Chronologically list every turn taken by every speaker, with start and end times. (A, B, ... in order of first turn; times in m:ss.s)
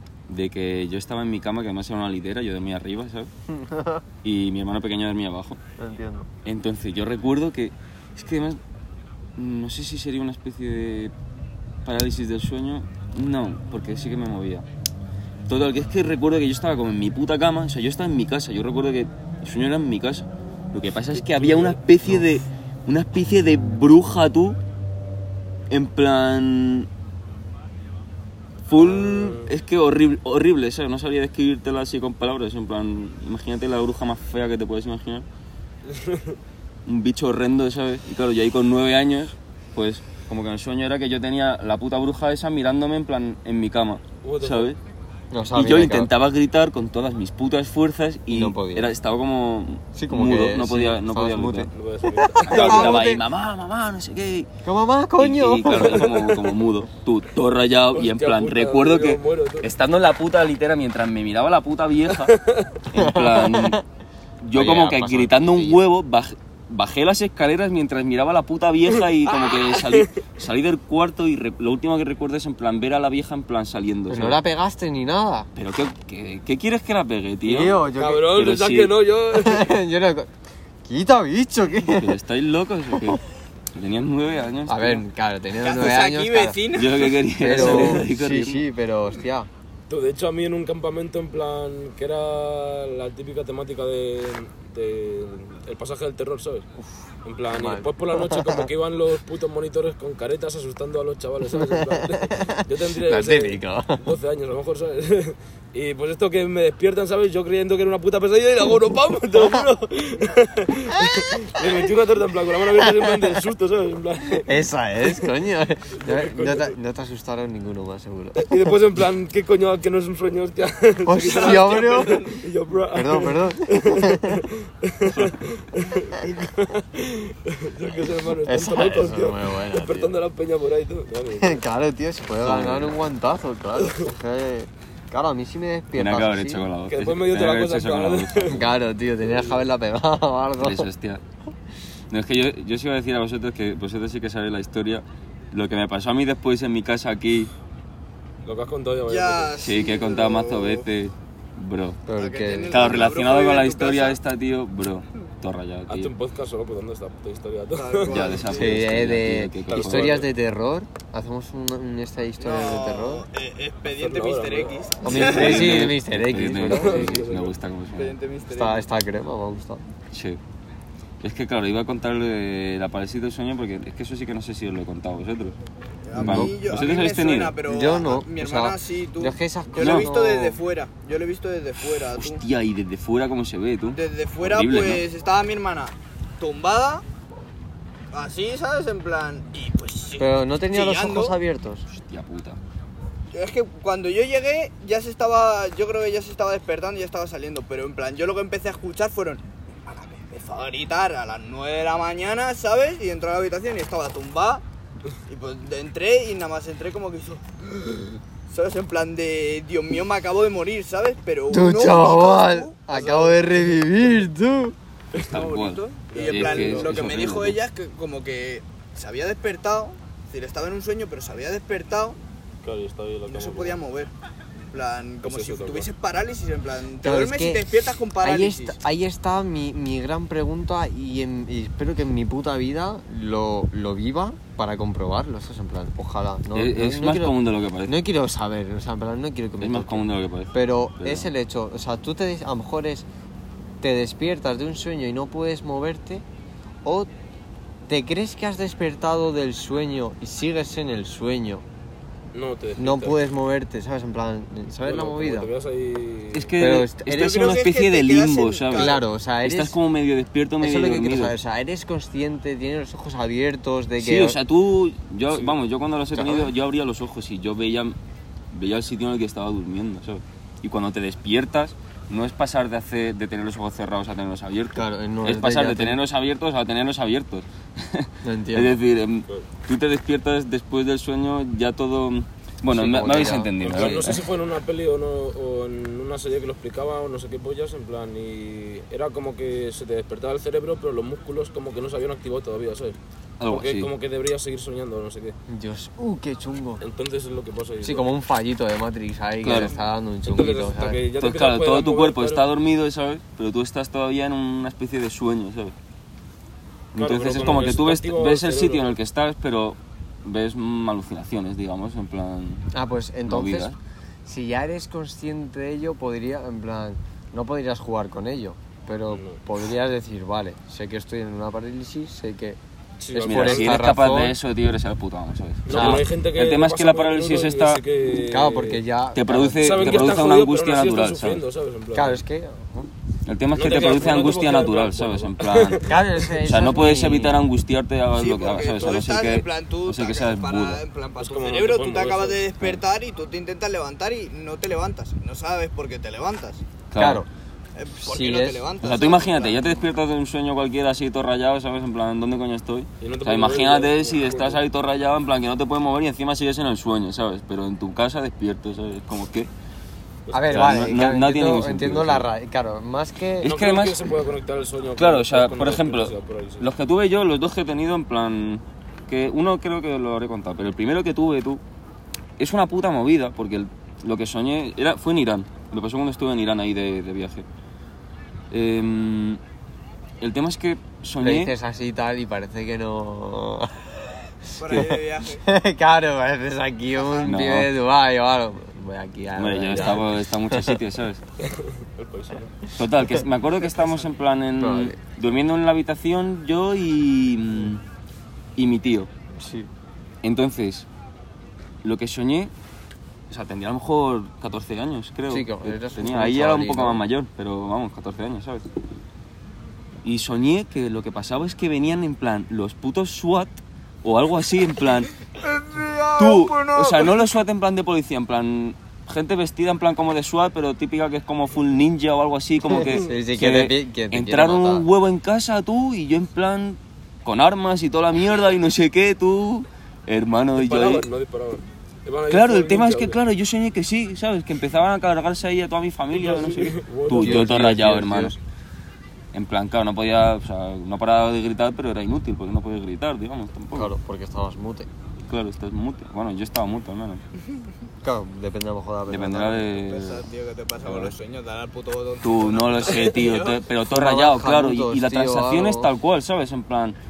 0:00.3-0:03.3 A
0:03.5-0:04.1 B
0:04.2-0:05.6 A
0:05.8-0:06.3 B
0:06.4-0:08.6 A
0:09.4-0:11.1 A
0:11.8-0:14.6 A
0:15.5-0:24.6 A
0:21.3-0:21.8 C
0:25.7-0:26.9 A
0:28.7-0:35.3 A
0:28.8-0:29.5 C
0:35.8-0:36.4 C
0:36.8-0:44.8 A
0:44.2-0:44.7 C
0:45.3-0:46.1 B
0:45.5-0:51.7 A
0:48.3-0:48.9 B
0:49.9-0:53.2 B
0:51.7-0:53.0 C
0:52.4-0:54.5 A
0:54.6-0:56.5 B
0:55.2-1:02.3 A
0:57.9-0:59.7 C
1:02.2-1:02.8 C
1:02.9-1:03.8 B
1:02.9-1:03.8 A
1:04.4-1:14.4 A
1:04.5-1:05.8 B
1:09.3-1:10.2 C
1:14.1-1:15.5 B
1:15.6-1:17.8 A
1:17.4-1:18.4 B
1:17.9-1:19.8 C
1:18.3-1:19.0 A
1:19.3-1:20.3 B
1:20.8-1:22.2 B
1:21.9-1:23.2 A
1:23.7-1:25.0 A
1:24.7-1:26.6 B
1:25.6-1:27.2 D
1:26.7-1:28.6 A
1:27.4-1:29.5 B
1:27.5-1:28.0 C
1:29.9-1:36.7 C
1:37.2-1:55.3 C
1:37.5-1:38.6 B
1:41.6-1:44.1 B
1:51.1-1:51.8 B
1:52.8-1:53.4 B
1:54.4-1:58.7 B
1:55.9-1:56.7 C
1:58.4-2:11.6 C
2:01.1-2:02.2 B
2:01.1-2:02.4 D
2:02.9-2:04.4 B
2:08.4-2:10.1 B
2:11.4-2:16.7 B
2:12.4-2:13.0 A
2:15.9-2:18.7 A
2:16.9-2:18.6 C
2:18.5-2:20.9 B
2:20.6-2:21.2 A
2:22.1-2:27.5 A
2:28.4-2:29.6 C
2:29.1-2:30.9 D
2:29.6-2:32.0 A
2:32.1-2:33.0 B
2:32.2-2:34.2 D
2:32.7-2:36.1 A
2:35.9-2:38.4 C
2:37.8-2:38.8 D
2:38.1-2:40.3 A
2:38.5-2:43.2 B
2:39.8-2:40.3 C
2:42.4-2:45.8 D
2:43.9-2:44.8 C
2:45.0-2:47.3 B
2:45.1-2:48.2 A
2:45.5-2:45.9 C
2:46.5-2:47.5 C
2:47.9-2:48.9 D
2:48.5-2:49.8 B
2:50.1-2:50.4 A
2:51.2-2:55.6 A
2:56.1-3:02.4 D
2:56.1-2:56.5 B
2:56.2-2:57.6 A
2:57.6-3:00.6 B
2:59.8-3:00.1 A
3:01.9-3:05.0 A
3:03.9-3:07.0 D
3:08.1-3:11.4 D
3:10.2-3:11.9 B
3:11.9-3:12.6 A
3:13.3-3:24.6 D
3:25.3-3:33.5 D
3:31.5-3:34.8 B
3:35.2-3:37.6 A
3:35.2-3:42.2 D
3:36.1-3:37.2 C
3:42.6-3:43.8 C
3:43.3-3:44.1 D
3:44.7-3:48.8 D
3:45.2-3:45.9 C
3:47.0-3:47.7 B
3:48.2-4:03.1 B
3:56.5-3:58.0 A
3:59.6-4:01.3 A
4:03.8-4:06.2 B
4:07.9-4:11.6 B
4:12.3-4:13.2 C
4:12.8-4:15.5 B
4:14.8-4:16.5 C
4:16.3-4:21.4 A
4:16.6-4:17.4 B
4:17.1-4:19.0 D
4:18.7-4:19.8 B
4:20.6-4:24.4 B
4:24.0-4:28.0 A
4:26.1-4:26.5 B
4:28.5-4:44.3 A
4:34.8-4:36.0 B
4:38.2-4:38.8 B
4:42.7-4:43.9 B
4:43.6-4:55.4 C
4:53.4-4:53.9 A
4:55.5-4:56.8 B
4:56.8-4:58.1 C
4:57.8-5:01.0 B
4:59.4-4:59.8 A
5:00.2-5:02.5 C
5:01.1-5:05.8 A
5:06.9-5:12.7 A
5:06.9-5:08.9 C
5:12.7-5:13.7 B
5:13.2-5:13.8 A
5:14.3-5:22.6 B
5:19.1-5:19.4 C
5:23.0-5:23.8 C
5:23.1-5:24.4 B
5:23.2-5:27.8 A
5:25.6-5:28.8 C
5:25.7-5:26.1 B
5:28.2-5:30.3 B
5:29.1-5:31.4 A
5:29.6-5:32.2 C
5:31.9-5:32.9 B
5:33.3-5:35.9 A
5:33.5-5:36.0 C
5:35.8-5:37.4 B
5:36.4-5:40.8 A
5:38.1-5:46.6 D
5:41.2-5:42.4 C
5:46.9-5:47.2 A
5:47.0-5:47.3 B
5:47.8-5:49.7 D
5:47.9-5:48.6 B
5:48.8-5:59.5 A
5:53.0-5:54.6 C
6:00.3-6:00.6 C
6:00.3-6:03.5 B
6:00.5-6:02.3 A
6:03.4-6:04.1 A
6:03.4-6:06.7 C
6:04.9-6:11.6 A
6:12.4-6:17.5 A
6:18.5-6:19.4 A
6:20.2-6:21.5 A
6:21.2-6:23.9 B
6:24.6-6:25.4 D
6:24.6-6:30.8 B
6:27.0-6:27.3 D
6:27.2-6:27.7 A
6:29.4-6:31.2 A
6:31.4-6:32.6 C
6:32.8-6:37.8 A
6:34.6-6:35.0 B
6:38.6-6:39.1 A
6:39.4-6:39.7 B
6:40.2-6:40.9 A
6:41.8-6:42.5 A
6:43.3-6:48.7 A
6:45.3-6:47.0 B
6:50.0-6:55.1 A
6:55.4-6:57.2 D
6:56.2-7:11.1 A
7:02.6-7:04.9 B
7:10.6-7:13.2 C
7:12.3-7:18.4 A
7:16.1-7:17.8 C
7:17.2-7:18.4 B
7:19.3-7:23.9 A
7:23.7-7:24.9 B
7:25.2-7:27.2 A
7:28.0-7:29.8 B
7:29.1-7:30.2 A
7:29.8-7:33.6 D
7:30.8-7:31.1 B
7:32.2-7:37.0 A
7:33.9-7:35.9 B